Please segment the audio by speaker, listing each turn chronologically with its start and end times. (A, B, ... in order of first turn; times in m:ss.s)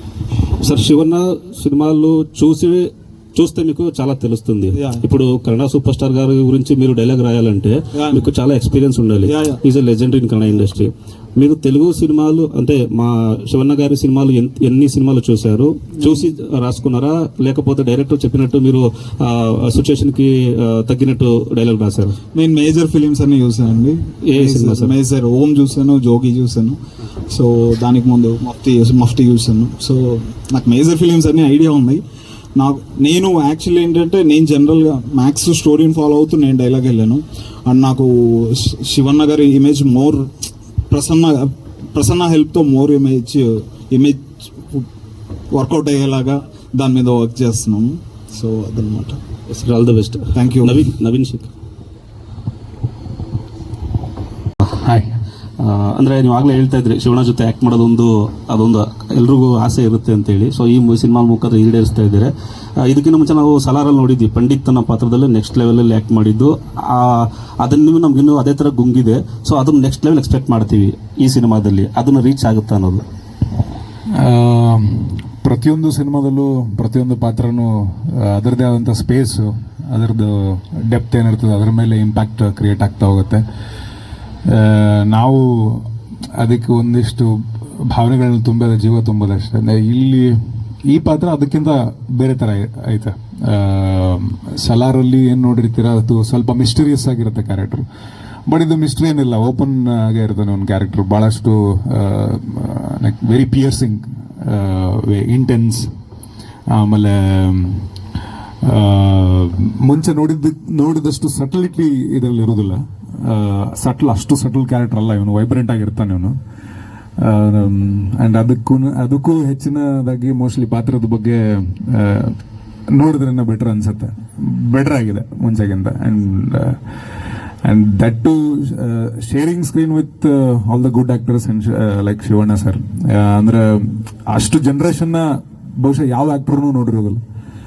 0:00.6-0:22.2 A
0:04.7-0:05.0 B
0:07.9-0:08.3 B
0:09.3-0:09.6 B
0:22.3-0:26.8 B
0:24.2-0:24.9 A
0:27.3-0:32.0 B
0:32.6-0:44.9 B
0:45.5-0:49.2 B
0:49.5-0:51.5 A
0:50.3-0:50.8 B
0:54.8-1:13.0 A
1:14.1-1:23.4 C
1:24.5-1:25.9 C
1:26.4-1:27.3 C
1:27.9-1:37.8 C
1:38.5-1:45.9 C
1:46.7-1:47.9 C
1:48.6-1:56.4 C
1:57.2-2:02.4 C
2:02.9-2:06.8 C
2:07.6-2:15.2 C
2:15.8-2:17.2 C